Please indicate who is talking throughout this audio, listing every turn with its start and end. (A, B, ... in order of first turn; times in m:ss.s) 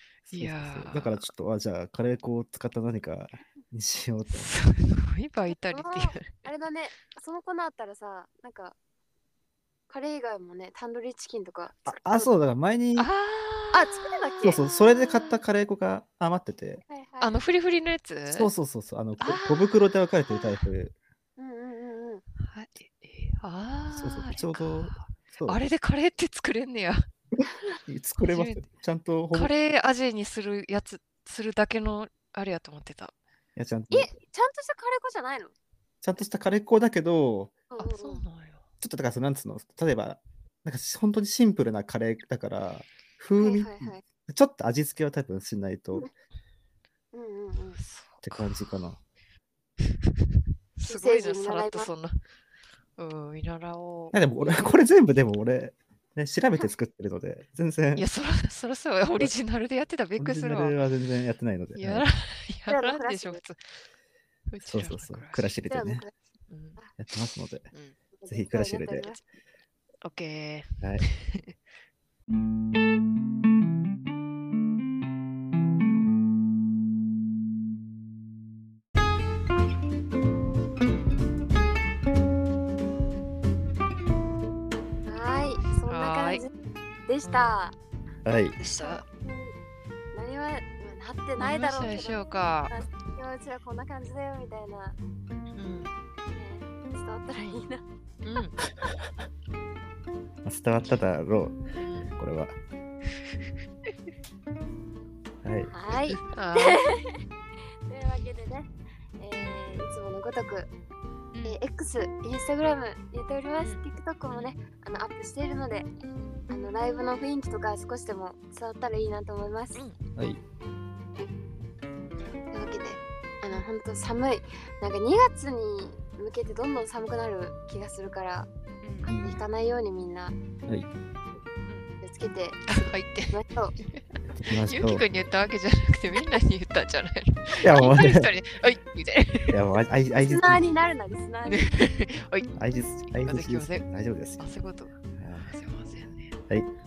0:00.3-0:01.3 A
0:00.3-0:04.5 B
0:04.3-0:06.4 A
0:05.5-0:08.8 C
0:09.9-0:12.3 C
0:11.9-0:13.1 B
0:13.0-0:15.4 A
0:13.7-0:14.6 C
0:14.4-0:16.8 B
0:16.8-0:17.4 C
0:17.2-0:18.5 A
0:18.3-0:20.9 B
0:19.2-0:20.7 A
0:21.4-0:22.2 C
0:22.4-0:27.1 A
0:23.9-0:25.6 B
0:27.4-0:29.5 B
0:28.2-0:28.7 A
0:29.3-0:33.1 A
0:33.6-0:34.1 B
0:33.9-0:35.5 C
0:36.0-0:37.6 B
0:37.7-0:38.2 C
0:37.8-0:38.6 A
0:38.8-0:46.1 B
0:43.4-0:44.0 C
0:47.1-0:47.8 C
0:47.8-0:48.7 A
0:48.2-0:49.0 B
0:50.8-0:52.2 A
0:50.9-0:51.9 C
0:53.0-0:54.7 A
0:54.1-0:58.1 B
0:58.0-1:00.8 A
1:00.2-1:02.1 B
1:01.8-1:03.8 A
1:02.7-1:03.4 C
1:04.5-1:05.5 A
1:04.6-1:06.0 B
1:05.7-1:06.1 C
1:06.5-1:06.8 A
1:07.0-1:07.7 B
1:07.7-1:08.0 A
1:08.2-1:09.2 C
1:08.3-1:09.1 B
1:10.0-1:11.5 A
1:25.1-1:26.5 C
1:25.9-1:26.5 A
1:27.1-1:27.8 C
1:27.2-1:27.6 A
1:28.2-1:28.6 B
1:28.6-1:29.0 A
1:28.8-1:29.5 C
1:30.1-1:35.0 C
1:31.4-1:32.7 A
1:35.6-1:35.9 A
1:36.3-1:37.8 C
1:37.3-1:37.6 A
1:38.2-1:38.6 A
1:40.4-1:41.6 B
1:41.8-1:42.1 A
1:42.2-1:42.6 B
1:45.4-1:45.7 B
1:45.7-1:47.2 C
1:46.2-1:46.8 A
1:47.9-1:48.7 C
1:49.2-1:50.7 C
1:49.3-1:49.6 A
1:51.3-1:51.6 A
1:51.4-1:55.9 C
1:53.6-1:54.6 A
1:56.5-1:59.8 C
2:02.5-2:08.5 C
2:08.8-2:09.1 A
2:09.0-2:10.4 C
2:09.1-2:09.4 B
2:12.0-2:12.6 C
2:12.7-2:19.6 A
2:13.3-2:13.7 C
2:14.3-2:15.0 B
2:17.6-2:18.3 B
2:19.5-2:20.6 B
2:20.2-2:21.8 C
2:21.5-2:22.5 A
2:22.6-2:24.5 B
2:23.1-2:23.9 A
2:24.4-2:26.4 A
2:25.2-2:25.5 B